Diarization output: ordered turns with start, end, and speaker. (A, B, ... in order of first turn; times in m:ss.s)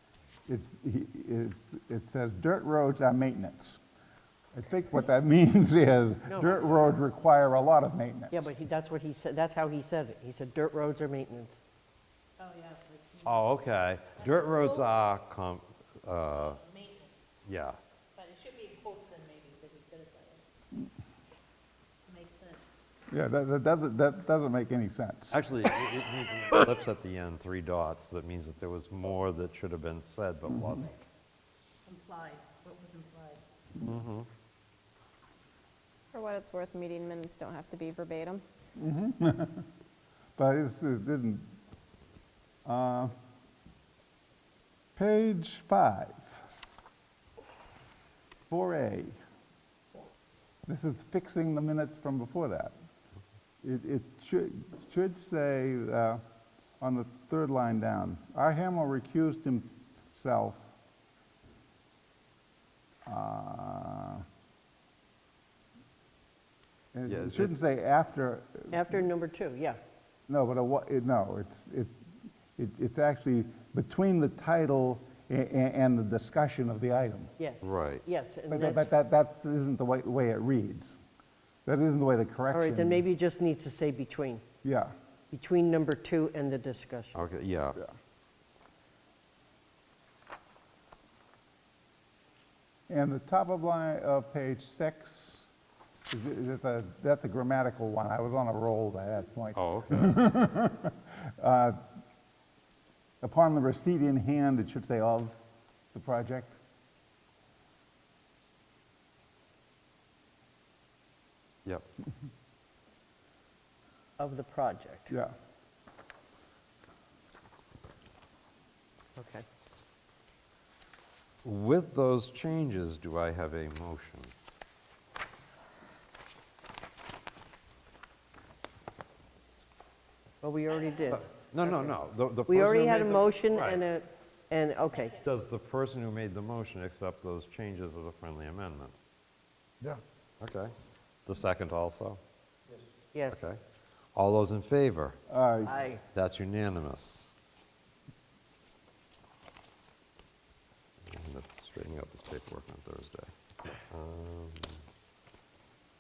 0:00.5-0:03.8 A
0:04.5-0:08.5 A
0:06.3-0:06.6 B
0:08.3-0:11.6 B
0:12.4-0:13.2 C
0:13.2-0:16.6 D
0:16.7-0:17.1 C
0:17.4-0:17.8 D
0:18.2-0:20.4 C
0:22.1-0:22.6 C
0:23.1-0:25.4 A
0:25.3-0:31.0 D
0:31.9-0:33.4 C
0:33.8-0:34.3 D
0:36.1-0:38.4 E
0:38.8-0:39.7 A
0:40.4-0:41.6 A
0:42.6-0:43.1 A
0:45.0-0:46.5 A
0:48.5-0:49.2 A
0:50.7-0:52.7 A
0:53.6-0:56.2 A
0:56.8-1:00.8 A
1:03.1-1:04.2 A
1:06.9-1:09.0 A
1:07.1-1:07.6 D
1:08.7-1:09.8 B
1:10.3-1:11.9 A
1:12.6-1:17.4 A
1:17.4-1:18.9 B
1:17.6-1:18.0 D
1:18.5-1:21.0 A
1:21.7-1:23.1 A
1:22.5-1:24.4 B
1:24.6-1:24.9 A
1:25.3-1:27.2 B
1:27.1-1:27.8 D
1:32.9-1:35.5 A
1:36.1-1:41.8 A
1:39.6-1:40.2 D
1:43.2-1:45.4 A
1:45.9-1:46.6 A
1:54.2-1:55.1 B
1:59.2-1:59.4 B
2:01.4-2:04.3 D
2:10.4-2:12.0 B
2:11.1-2:13.8 D
2:12.5-2:15.2 B
2:15.1-2:19.0 D
2:20.4-2:20.7 D
2:21.3-2:22.2 D
2:23.3-2:23.6 D
2:24.1-2:25.2 D
2:25.3-2:25.7 A
2:25.6-2:26.0 B
2:26.1-2:27.3 D
2:31.1-2:33.3 D
2:33.9-2:34.8 D